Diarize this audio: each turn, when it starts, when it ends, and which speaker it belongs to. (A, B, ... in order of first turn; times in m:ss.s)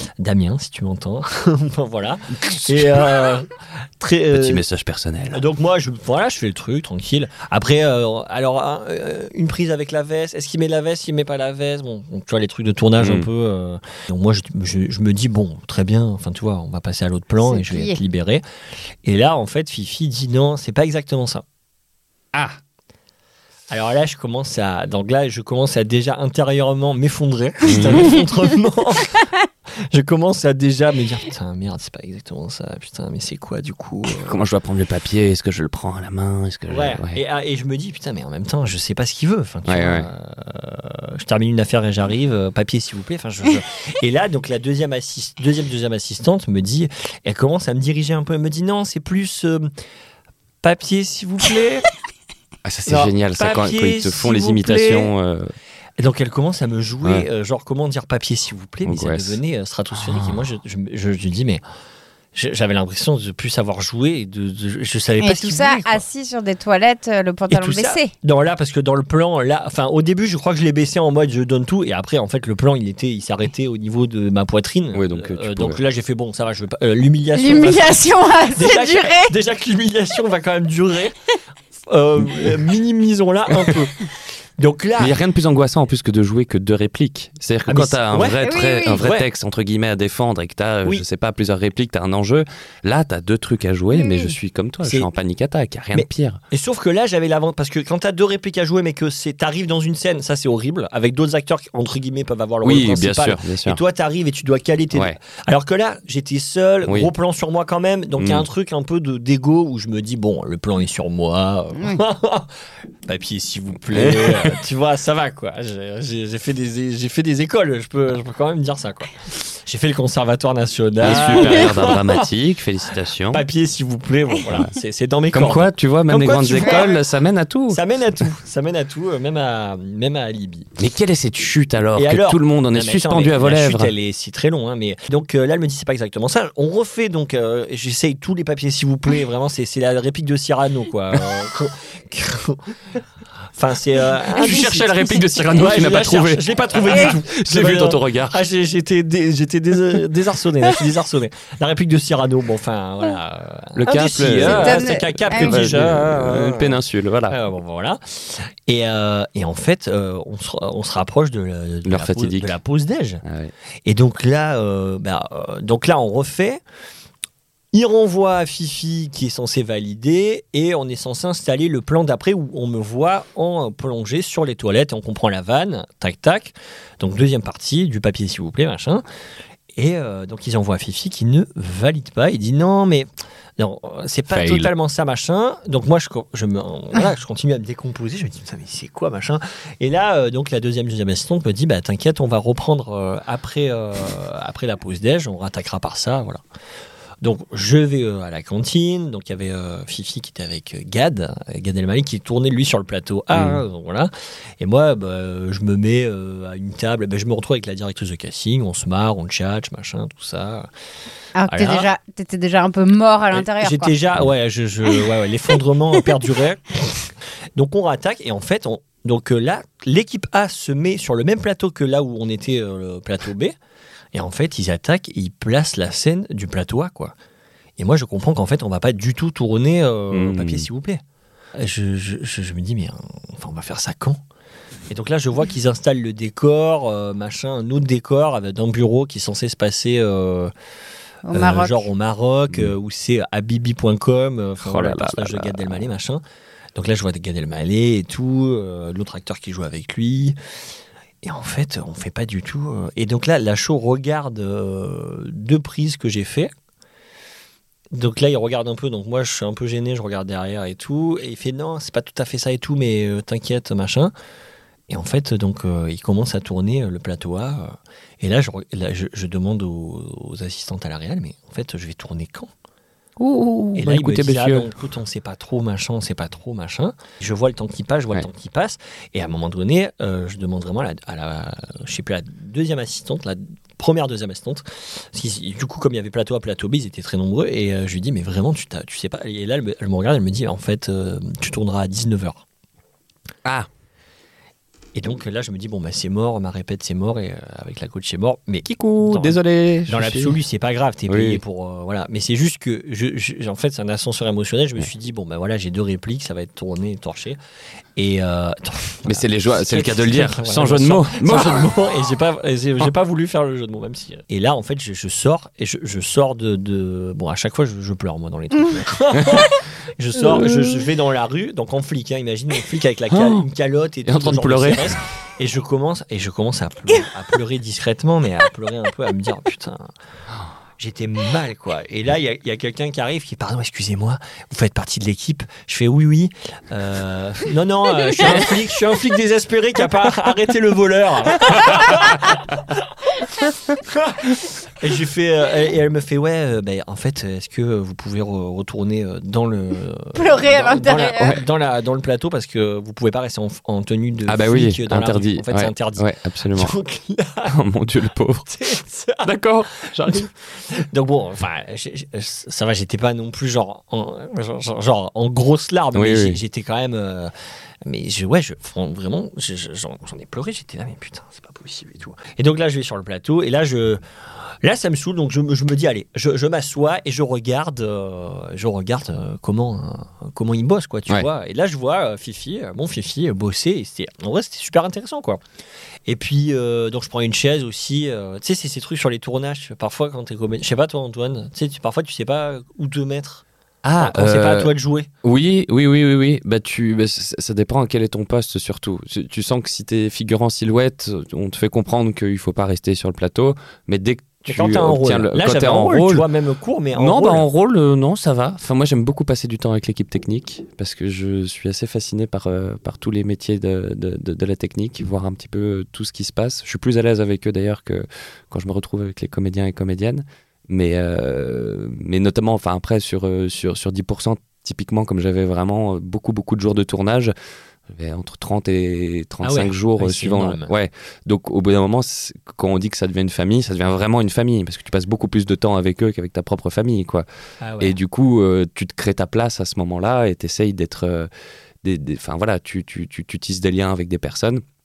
0:00.2-0:04.6 A
0:02.4-0:03.3 B
0:04.3-0:05.4 B
0:05.3-0:18.4 A
0:13.0-0:13.3 B
0:17.4-0:18.0 C
0:19.0-0:21.4 A
0:22.3-0:22.6 B
0:23.7-0:29.3 A
0:27.6-0:28.1 B
0:29.9-0:34.4 A
0:34.1-0:37.2 B
0:36.7-0:49.7 A
0:39.7-0:40.1 B
0:50.6-0:51.9 A
0:52.6-0:55.5 B
0:52.9-0:55.1 A
0:56.0-1:01.6 A
0:58.8-0:59.4 B
1:00.1-1:00.3 B
1:02.4-1:06.0 A
1:05.2-1:08.1 C
1:07.5-1:21.2 A
1:14.9-1:15.8 B
1:17.4-1:19.4 C
1:21.9-1:24.0 A
1:22.2-1:22.5 B
1:23.5-1:23.8 B
1:24.6-1:25.2 A
1:25.0-1:36.4 B
1:27.7-1:29.3 A
1:28.4-1:29.0 C
1:33.9-1:34.4 C
1:34.8-1:35.1 A
1:35.9-1:52.5 A
1:42.6-1:43.8 B
1:44.9-1:45.2 B
1:48.2-1:48.5 B
1:51.8-1:52.0 C
1:53.1-2:02.3 A
1:53.9-1:54.6 B
2:01.0-2:03.4 B
2:01.2-2:01.6 C
2:03.3-2:07.0 A
2:05.3-2:08.2 B
2:06.6-2:06.9 C
2:07.7-2:10.8 A
2:10.8-2:13.9 B
2:12.0-2:22.7 A
2:23.6-2:43.2 A
2:24.2-2:28.4 B
2:33.8-2:37.4 B
2:34.4-2:35.6 C
2:41.8-2:42.6 B
2:43.2-2:43.5 B
2:43.8-2:46.6 A
2:47.7-2:59.0 A
2:59.8-3:16.4 A
3:04.3-3:04.7 B
3:17.2-3:30.7 A
3:23.3-3:23.6 B
3:31.4-3:34.0 C
3:31.5-3:31.9 A
3:33.3-3:37.0 A
3:37.6-3:43.6 A
3:44.1-3:47.2 A
3:47.8-3:51.0 A
3:50.1-3:50.7 B
3:51.6-3:54.2 A
3:54.9-4:00.5 A
4:01.3-4:01.9 C
4:01.3-4:06.2 A
4:04.6-4:05.8 B
4:06.8-4:10.4 A
4:11.2-4:16.5 A
4:17.9-4:24.1 A
4:24.9-4:32.5 A
4:33.2-4:34.7 B
4:33.8-4:52.4 A
4:55.0-4:59.4 A
4:58.6-5:00.4 B
4:59.9-5:07.4 A
5:01.1-5:01.4 B
5:08.0-5:29.9 A
5:09.0-5:11.7 B
5:19.1-5:19.5 B
5:20.2-5:20.8 B
5:23.1-5:23.5 B
5:24.0-5:25.0 B
5:30.8-5:57.6 A
5:50.2-5:51.4 C
5:54.3-5:56.7 B
5:57.5-5:58.5 B
5:58.5-6:07.3 A
5:59.2-6:00.3 B
6:06.0-6:06.4 B
6:07.8-6:14.0 A
6:14.6-6:25.4 A
6:26.1-6:33.4 A
6:33.8-6:46.2 B
6:34.0-6:35.1 A
6:44.4-6:47.4 A
6:47.0-7:07.3 B
7:07.9-7:17.3 B
7:09.4-7:10.7 A
7:17.6-7:18.0 A
7:17.8-7:21.3 B
7:21.8-7:24.6 B